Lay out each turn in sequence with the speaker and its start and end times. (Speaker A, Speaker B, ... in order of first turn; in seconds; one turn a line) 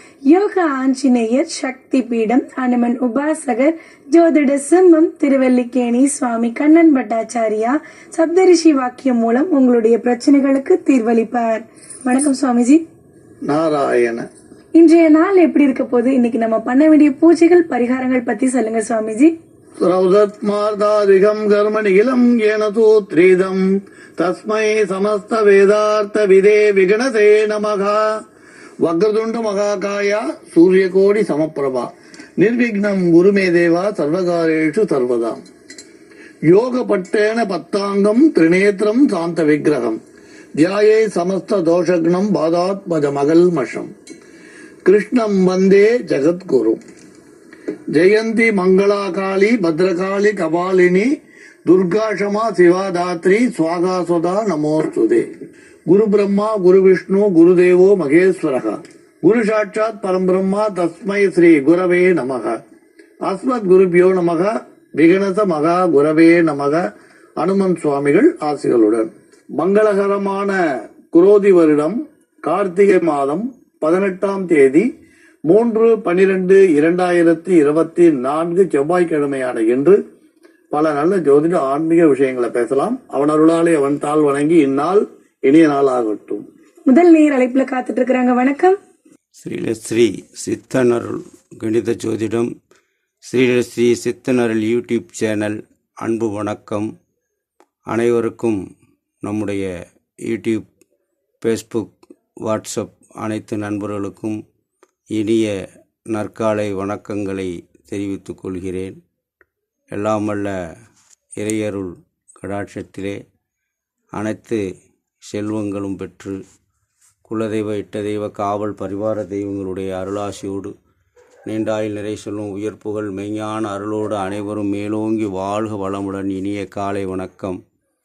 Speaker A: 0.3-12.8
Speaker B: 13.4-14.3
Speaker A: 14.8-19.3
Speaker B: 19.8-23.6
Speaker B: 24.2-28.0
Speaker B: 28.8-35.4
Speaker B: 36.5-40.0
Speaker B: 40.6-43.9
Speaker B: 44.8-46.8
Speaker B: 47.9-51.1
Speaker B: 51.7-55.2
Speaker B: 55.9-62.6
Speaker B: 63.2-66.8
Speaker B: 67.4-70.6
Speaker B: 71.1-74.9
Speaker B: 75.5-80.0
Speaker B: 80.7-86.4
Speaker A: 86.9-88.8
Speaker C: 89.4-92.5
Speaker C: 93.3-96.9
Speaker C: 97.9-98.6
Speaker C: 99.2-99.7
Speaker C: 100.2-100.6
Speaker C: 101.4-101.9
Speaker C: 102.4-104.4
Speaker C: 105.1-105.5
Speaker C: 106.1-109.0
Speaker C: 109.9-110.5
Speaker C: 111.4-113.2
Speaker C: 114.2-114.6
Speaker C: 115.3-116.4
Speaker C: 117.2-120.7
Speaker C: 121.5-127.6